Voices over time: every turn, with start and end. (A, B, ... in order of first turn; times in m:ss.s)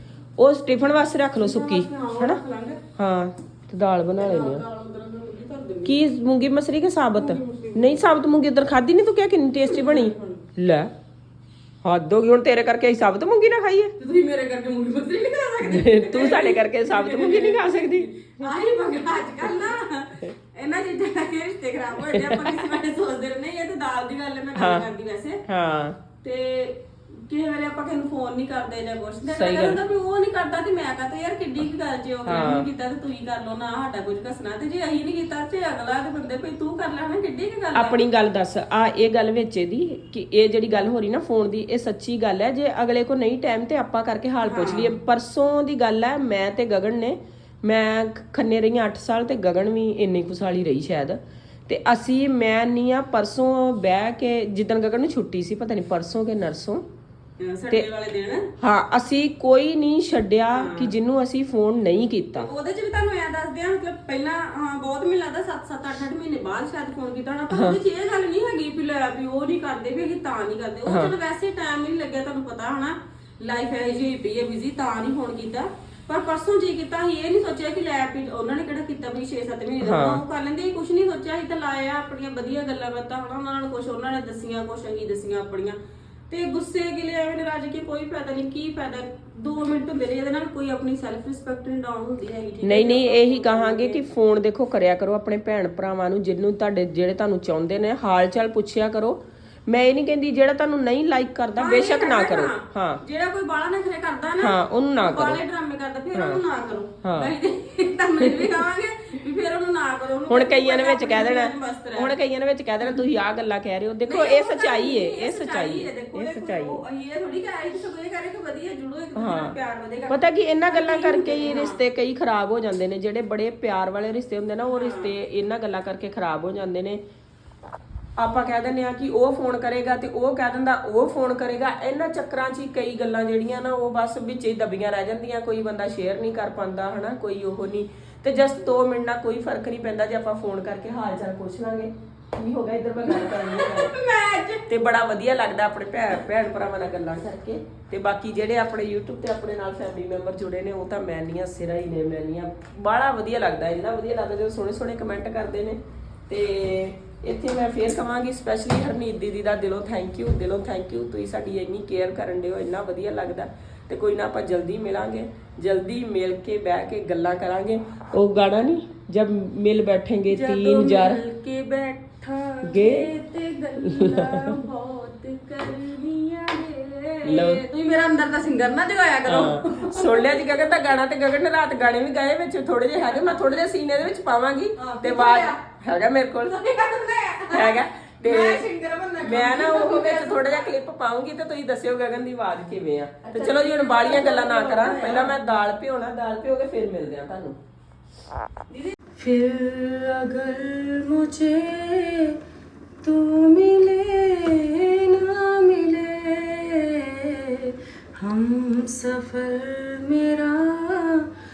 0:00.4-0:02.4 A
0:01.4-0:02.8 B
0:03.0-0:04.6 A
0:04.2-0:06.0 B
0:05.8-0:10.9 A
0:07.1-0:08.1 B
0:09.6-0:10.4 B
0:11.8-0:13.9 A
0:14.0-0:25.4 B
0:15.6-0:18.1 A
0:22.1-0:22.5 A
0:24.5-0:24.9 A
0:25.5-0:26.0 A
0:26.2-0:38.0 B
0:29.3-0:29.8 A
0:32.2-0:32.7 A
0:37.7-0:56.8 A
0:44.4-0:44.9 B
0:57.4-0:58.5 B
0:58.6-1:02.5 A
1:00.5-1:00.9 B
1:02.3-1:25.8 B
1:07.5-1:07.8 A
1:10.9-1:11.2 A
1:19.8-1:20.2 A
1:26.3-1:34.0 B
1:32.6-1:43.0 A
1:41.6-1:52.1 B
1:44.4-1:45.4 A
1:46.1-1:46.4 A
1:47.0-1:47.3 A
1:48.2-1:48.6 A
1:50.3-1:56.8 A
1:54.0-2:01.8 B
1:59.1-2:07.0 A
2:04.6-2:05.2 B
2:08.2-2:23.9 A
2:23.0-2:24.6 B
2:24.7-2:51.2 A
2:50.3-3:00.8 B
2:52.6-2:53.1 A
2:53.8-2:54.5 A
2:57.2-2:57.6 A
2:59.2-3:06.6 A
3:04.8-3:05.6 B
3:06.4-3:10.7 B
3:07.5-3:08.6 A
3:09.2-3:17.6 A
3:13.2-3:15.3 B
3:18.7-3:22.4 B
3:23.0-3:31.3 B